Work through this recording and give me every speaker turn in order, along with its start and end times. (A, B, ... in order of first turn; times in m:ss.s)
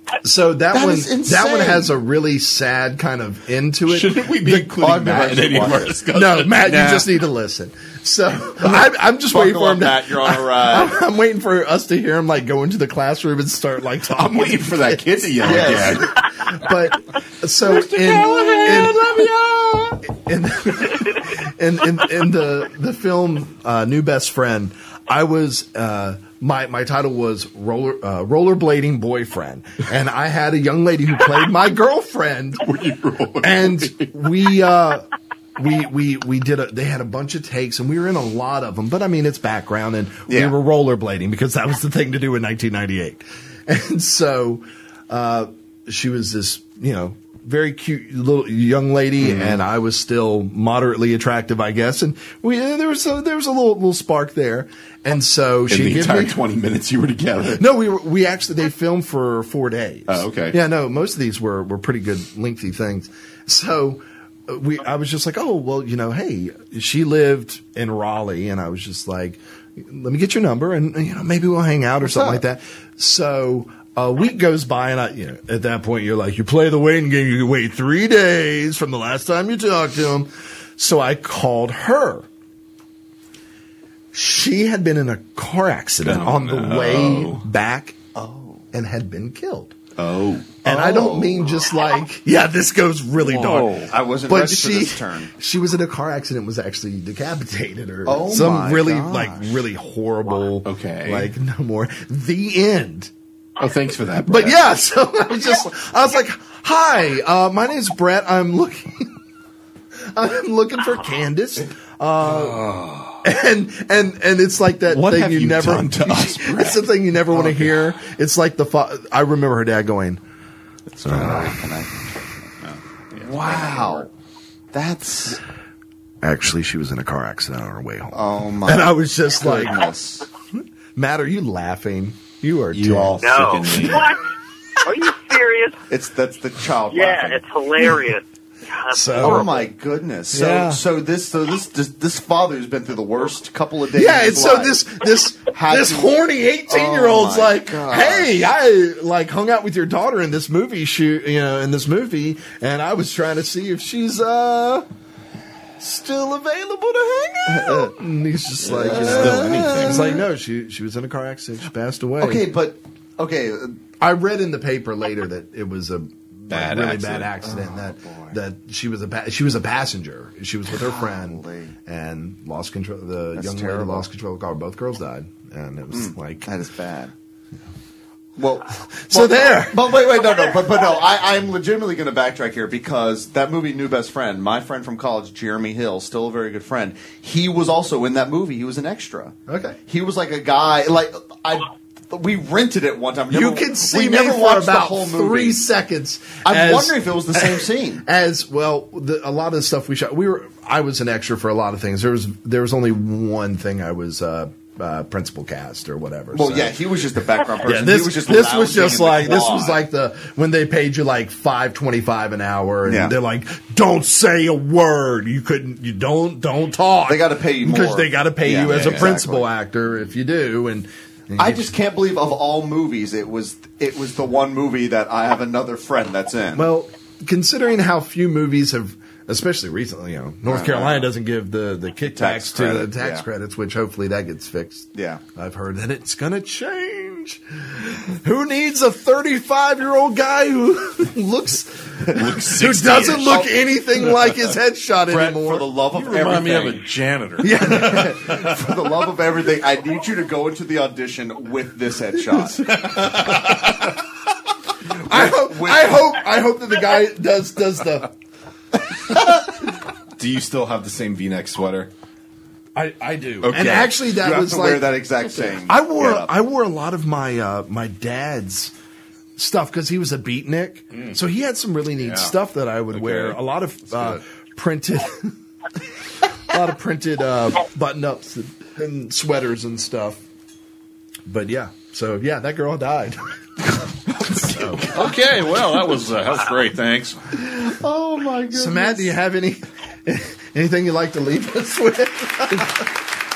0:00.2-0:04.8 A
0:00.7-0:01.9 B
0:03.8-0:07.1 C
0:04.8-0:05.9 B
0:06.1-0:19.3 A
0:09.3-0:11.0 B
0:14.1-0:16.2 C
0:15.4-0:16.1 B
0:17.7-0:20.0 C
0:20.0-0:32.7 A
0:32.6-0:34.2 C
0:33.4-0:56.4 A
0:40.3-0:40.5 B
0:49.2-0:49.6 C
0:55.7-0:57.6 C
0:57.6-1:22.3 A
1:00.1-1:00.6 C
1:12.0-1:12.4 B
1:24.1-1:28.0 A
1:26.0-1:27.4 C
1:28.1-1:28.6 B
1:28.7-1:29.8 A
1:30.0-1:30.6 C
1:30.6-1:31.7 B
1:30.6-1:43.1 A
1:33.2-1:33.9 C
1:33.7-1:35.3 B
1:38.0-1:39.6 B
1:40.6-1:41.3 C
1:43.6-1:44.6 C
1:44.3-1:49.1 A
1:50.1-1:52.7 A
1:52.2-1:53.2 C
1:53.2-2:00.2 A
1:54.8-1:57.8 C
2:00.9-2:02.5 B
2:01.0-2:01.5 C
2:03.2-2:04.1 B
2:03.4-2:03.8 D
2:04.7-2:05.4 B
2:06.2-2:09.8 A
2:08.1-2:10.3 B
2:10.9-2:13.2 A
2:12.7-2:14.1 C
2:13.2-2:14.3 E
2:14.8-2:15.8 E
2:15.9-2:17.4 B
2:16.9-2:19.6 E
2:18.9-2:19.6 A
2:19.2-2:24.8 B
2:20.3-2:20.8 A
2:23.9-2:34.8 A
2:25.5-2:28.4 B
2:35.8-2:42.5 A
2:37.5-2:37.9 B
2:38.6-2:40.2 C
2:38.8-2:40.2 B
2:42.2-2:43.8 B
2:44.0-2:56.5 A
2:46.5-2:47.3 C
2:47.4-2:48.4 B
2:50.7-2:51.7 B
2:53.4-2:54.1 B
2:55.9-2:57.1 B
2:58.4-3:15.6 B
2:58.9-3:00.0 A
3:09.5-3:09.8 A
3:13.3-3:26.8 A
3:16.4-3:18.0 B
3:26.3-3:29.8 B
3:27.6-3:41.7 A
3:32.8-3:33.1 B
3:37.1-3:39.5 B
3:38.6-3:39.1 C
3:41.4-3:46.7 B
3:46.5-4:05.7 A
3:50.4-3:51.1 B
3:52.1-3:53.2 B
3:54.9-3:55.2 B
4:02.1-4:03.5 C
4:03.2-4:03.5 B
4:05.1-4:06.9 B
4:05.9-4:07.8 D
4:07.4-4:08.5 A
4:07.7-4:12.8 B
4:13.0-4:13.4 C
4:15.0-4:18.1 A
4:15.1-4:16.0 B
4:20.2-4:21.9 C
4:22.7-4:25.0 A
4:23.4-4:24.0 C
4:24.0-4:26.3 B
4:25.7-4:28.7 A
4:29.4-4:35.3 A
4:32.0-4:32.3 C
4:32.9-4:33.4 C
4:36.5-4:40.2 A
4:41.3-4:43.2 A
4:44.2-4:44.8 C
4:44.2-4:44.9 A
4:44.9-4:47.2 D
4:47.3-4:49.1 B
4:48.5-4:52.8 A